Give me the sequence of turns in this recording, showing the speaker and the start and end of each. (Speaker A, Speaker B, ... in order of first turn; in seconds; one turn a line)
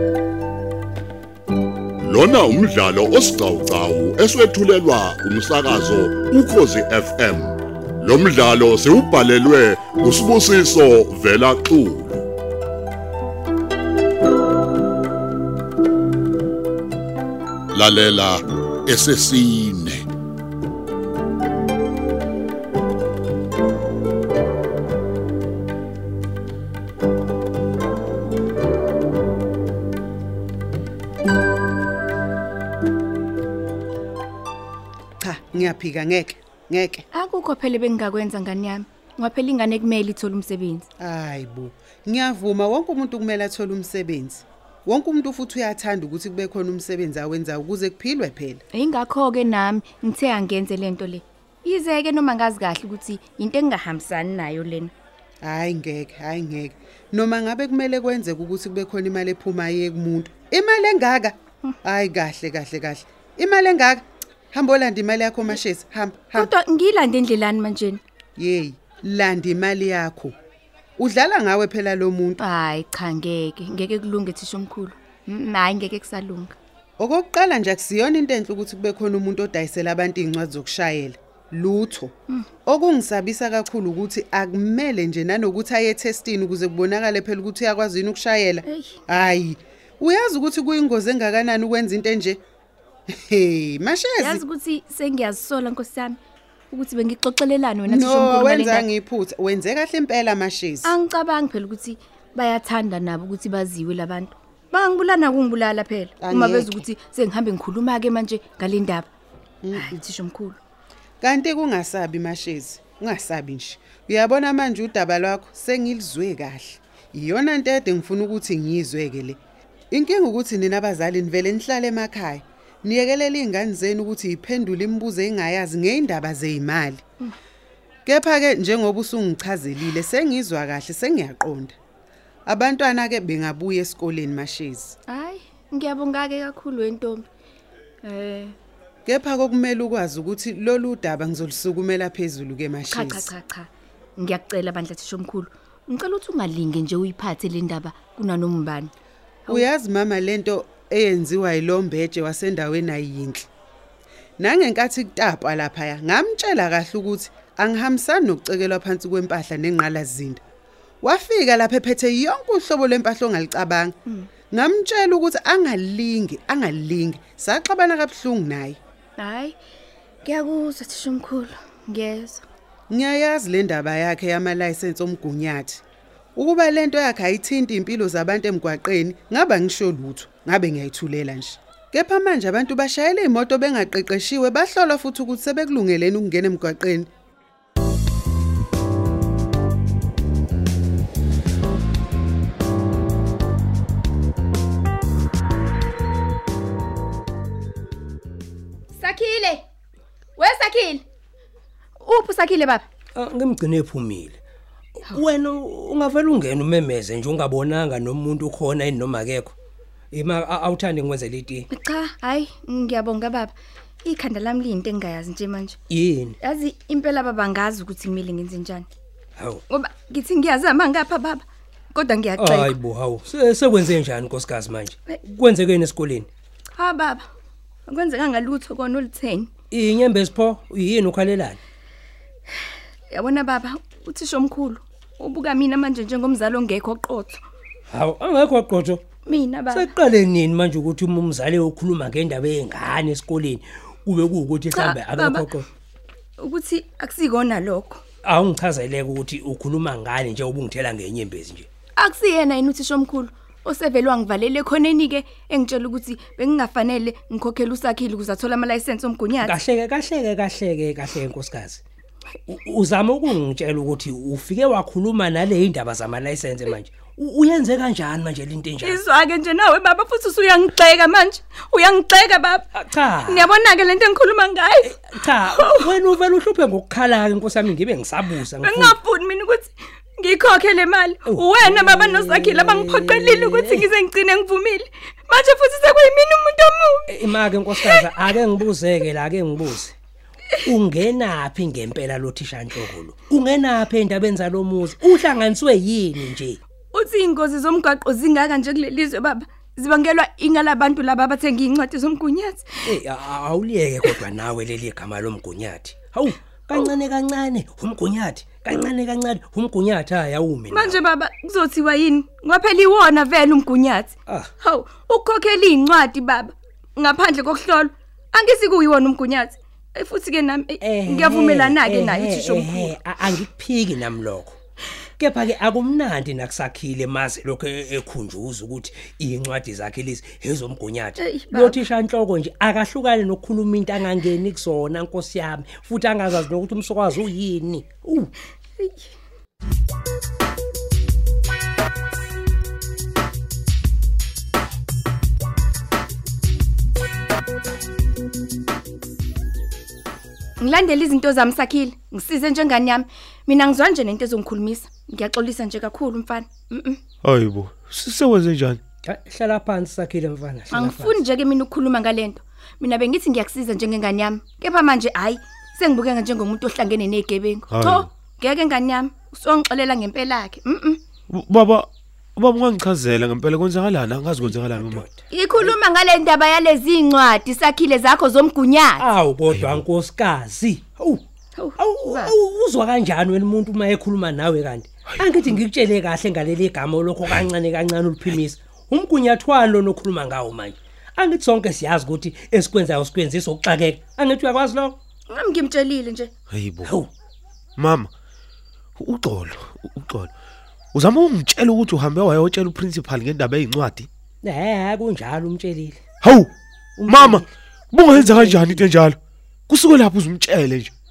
Speaker A: 2.0-12.2
Speaker A: 17.7-20.0
Speaker B: 35.2-37.0
Speaker C: 37.1-40.9
Speaker B: 41.0-48.6
Speaker C: 48.7-54.9
Speaker B: 55.4-66.5
Speaker C: 66.3-68.0
Speaker B: 68.4-70.3
Speaker B: 71.0-72.4
Speaker C: 72.4-76.5
Speaker B: 77.0-82.1
Speaker B: 82.7-92.4
Speaker C: 88.6-89.0
Speaker B: 93.1-94.4
Speaker C: 94.2-96.2
Speaker C: 96.7-98.9
Speaker B: 97.9-100.9
Speaker C: 100.8-109.1
Speaker B: 106.2-106.8
Speaker B: 109.6-110.0
Speaker C: 109.7-110.6
Speaker B: 111.2-119.4
Speaker B: 119.9-127.0
Speaker B: 128.1-131.8
Speaker B: 132.5-134.9
Speaker C: 135.1-137.2
Speaker C: 138.0-138.6
Speaker B: 139.1-143.3
Speaker C: 142.9-148.9
Speaker B: 149.5-153.5
Speaker B: 154.4-160.4
Speaker B: 161.0-163.9
Speaker B: 164.5-168.8
Speaker C: 169.2-169.6
Speaker C: 170.2-172.4
Speaker B: 172.9-175.8
Speaker B: 176.4-187.1
Speaker C: 199.0-199.7
Speaker C: 200.4-201.0
Speaker C: 202.0-202.8
Speaker D: 203.2-204.4
Speaker D: 205.0-209.5
Speaker D: 210.1-211.7
Speaker C: 211.7-215.8
Speaker D: 215.9-216.4
Speaker C: 216.4-218.9
Speaker D: 219.4-219.6
Speaker C: 219.7-222.8
Speaker D: 222.4-226.3
Speaker C: 226.8-227.2
Speaker C: 227.9-229.5
Speaker D: 229.7-231.6
Speaker C: 233.1-237.4
Speaker D: 237.9-239.1
Speaker C: 239.2-239.9
Speaker D: 239.7-245.7
Speaker C: 244.7-245.4
Speaker C: 246.4-248.0
Speaker D: 248.2-251.7
Speaker C: 252.0-259.6
Speaker D: 259.4-261.8
Speaker D: 262.5-269.0
Speaker C: 268.8-272.7
Speaker D: 272.8-273.5
Speaker C: 273.2-274.9
Speaker D: 274.8-279.0
Speaker C: 275.6-275.9
Speaker C: 278.6-287.1
Speaker D: 281.2-283.9
Speaker D: 287.1-289.9
Speaker C: 287.7-288.1
Speaker D: 290.6-296.6
Speaker C: 296.9-302.8
Speaker D: 302.9-311.0
Speaker C: 310.7-322.9
Speaker D: 320.8-324.6
Speaker D: 325.2-338.3
Speaker C: 331.2-331.8
Speaker C: 338.8-339.1
Speaker C: 350.6-357.0
Speaker E: 357.2-358.8
Speaker D: 359.1-361.2
Speaker C: 360.7-371.0
Speaker E: 371.3-371.9
Speaker E: 372.4-375.0
Speaker D: 374.4-375.8
Speaker C: 375.3-379.1
Speaker D: 379.0-381.2
Speaker C: 381.6-382.3
Speaker D: 381.8-395.0
Speaker C: 395.3-396.3
Speaker E: 396.5-396.9
Speaker D: 396.8-397.1
Speaker E: 397.8-398.1
Speaker E: 399.0-400.3
Speaker E: 400.9-404.1
Speaker D: 404.4-406.0
Speaker E: 406.2-406.5
Speaker D: 407.0-407.5
Speaker E: 407.9-409.2
Speaker D: 408.0-409.0
Speaker E: 409.7-410.9